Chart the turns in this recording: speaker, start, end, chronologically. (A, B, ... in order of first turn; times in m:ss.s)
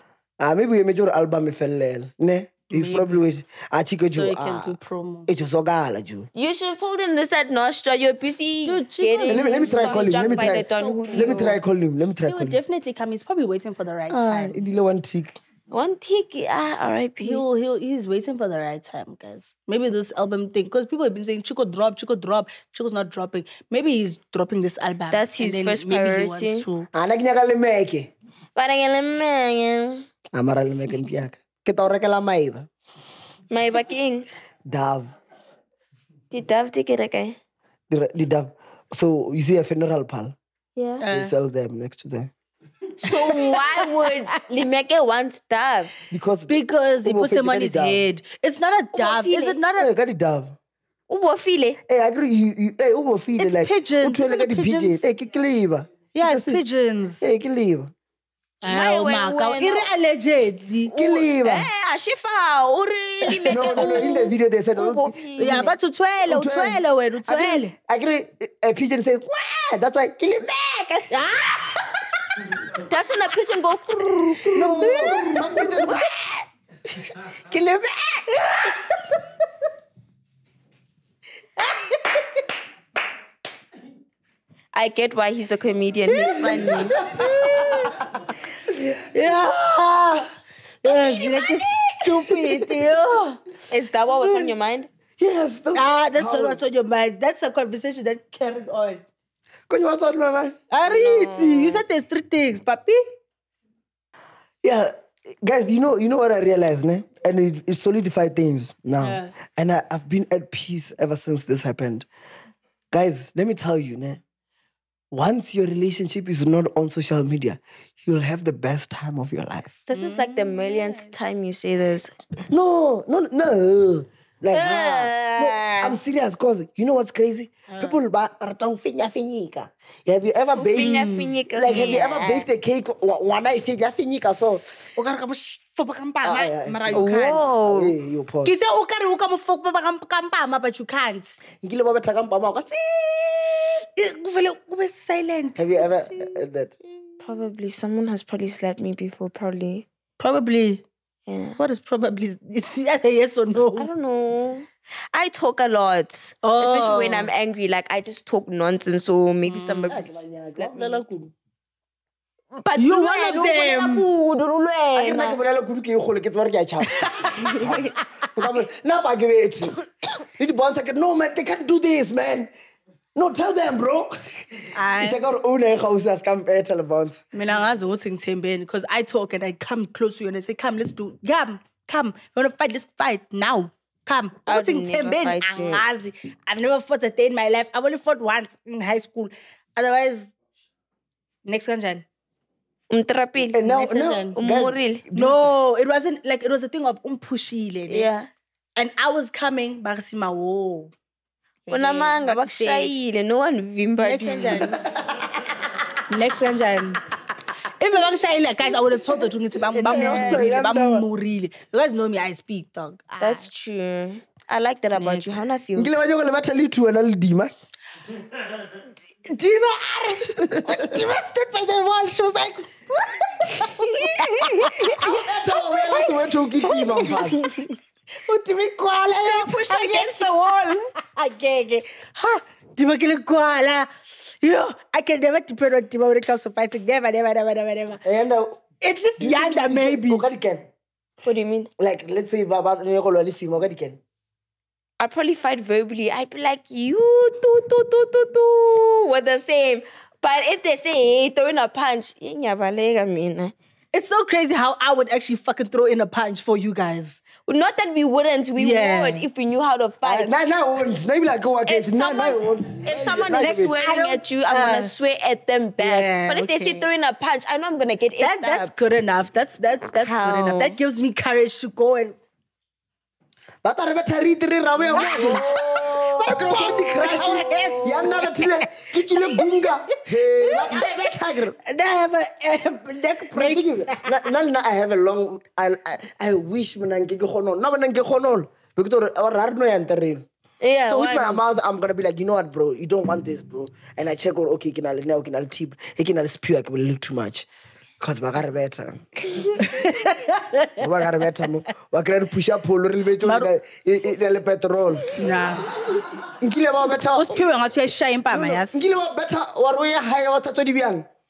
0:00.4-0:04.8 A
0:02.7-0:03.2 B
0:04.0-0:05.3 B
0:05.3-0:06.3 A
0:06.3-0:11.6 C
0:08.6-0:11.6 B
0:09.3-0:12.6 A
0:12.2-0:14.6 B
0:14.1-0:15.3 A
0:15.7-0:17.4 C
0:17.2-0:26.9 B
0:25.1-0:26.6 C
0:26.9-0:28.1 A
0:28.6-0:30.1 C
0:30.3-0:32.7 A
0:33.5-0:34.3 C
0:34.7-0:35.1 A
0:36.3-0:37.4 C
0:37.9-0:40.3 A
0:40.8-0:41.0 C
0:41.0-0:41.3 B
0:41.1-0:42.3 A
0:43.0-0:45.9 C
0:43.0-0:44.2 B
0:46.1-0:48.0 A
0:46.5-0:49.9 B
0:48.9-0:49.6 C
0:49.8-0:50.5 A
0:51.1-0:51.8 C
0:51.9-0:56.6 A
0:53.4-0:55.0 B
0:56.1-0:57.2 B
0:57.2-0:57.9 A
0:58.6-0:59.9 C
0:58.6-1:00.9 B
1:00.9-1:05.7 C
1:00.9-1:01.7 A
1:03.4-1:05.6 A
1:03.4-1:04.1 B
1:05.4-1:07.7 B
1:06.3-1:11.8 A
1:11.1-1:12.0 B
1:12.7-1:15.1 C
1:14.3-1:16.0 B
1:14.3-1:18.8 A
1:18.4-1:19.2 B
1:21.6-1:22.4 B
1:24.7-1:27.0 C
1:26.1-1:28.1 B
1:26.3-1:28.0 A
1:28.7-1:29.1 A
1:28.7-1:30.2 B
1:30.8-1:33.4 B
1:31.0-1:31.7 C
1:32.0-1:32.8 A
1:33.7-1:34.9 C
1:34.2-1:34.5 B
1:35.2-1:36.6 A
1:35.7-1:39.0 B
1:39.7-1:40.6 A
1:40.7-1:43.0 B
1:40.8-1:41.8 C
1:44.6-1:52.0 A
1:49.0-1:49.3 B
1:52.9-1:54.2 A
1:55.1-1:59.8 A
1:59.9-2:02.1 C
1:59.9-2:01.2 B
2:02.5-2:14.6 A
2:04.5-2:06.0 C
2:07.7-2:08.0 B
2:10.5-2:12.5 C
2:10.7-2:11.9 B
2:14.8-2:17.6 B
2:16.2-2:18.5 A
2:16.9-2:17.9 C
2:18.4-2:21.4 B
2:21.6-2:23.8 A
2:24.0-2:26.4 B
2:25.6-2:26.7 A
2:27.2-2:29.8 C
2:30.2-2:30.8 B
2:31.3-2:31.6 C
2:31.6-2:33.9 B
2:33.8-2:41.0 C
2:36.4-2:37.3 B
2:39.4-2:40.0 B
2:39.9-2:41.3 A
2:42.6-2:45.4 C
2:42.8-2:44.1 B
2:45.0-2:49.7 A
2:47.0-2:47.7 B
2:47.2-2:47.9 C
2:50.3-2:52.5 A
2:53.1-2:57.2 A
2:54.8-2:55.2 B
2:57.3-3:10.3 B
3:04.5-3:05.8 C
3:11.4-3:12.0 B
3:12.9-3:13.7 C
3:13.4-3:15.4 A
3:13.6-3:14.4 B
3:14.4-3:15.0 C
3:15.1-3:18.1 B
3:17.9-3:18.3 C
3:18.8-3:20.9 B
3:21.6-3:22.9 B
3:21.7-3:24.7 C
3:24.0-3:24.8 B
3:24.7-3:25.6 A
3:26.1-3:27.0 B
3:27.8-3:33.4 B
3:29.7-3:31.0 A
3:29.9-3:30.5 C
3:33.2-3:35.9 C
3:35.0-3:35.4 B
3:35.8-3:37.5 A
3:39.2-3:58.0 B
3:40.2-3:41.0 A
3:43.8-3:45.0 C
3:44.9-3:47.4 A
3:49.2-3:50.9 C
3:58.0-3:58.6 A
3:58.8-4:00.2 B
3:59.2-4:00.6 A
4:01.2-4:01.7 C
4:01.8-4:04.0 A
4:05.0-4:13.5 C
4:13.9-4:17.2 B
4:17.4-4:20.3 C
4:18.6-4:19.2 B
4:20.0-4:23.8 A
4:21.6-4:28.7 C
4:23.4-4:24.9 B
4:25.8-4:26.9 B
4:28.2-4:32.2 B
4:30.0-4:30.8 C
4:33.6-4:35.5 A
4:34.8-4:44.3 B
4:34.9-4:38.2 C
4:36.2-4:41.6 A
4:43.3-4:50.2 A
4:50.6-4:51.5 C
4:50.9-4:57.5 A
4:58.0-4:59.0 A
4:59.6-5:00.9 B
5:00.8-5:05.2 A
5:03.2-5:03.5 B
5:05.2-5:05.7 B
5:06.1-5:07.4 A
5:07.1-5:08.8 B
5:08.3-5:11.0 A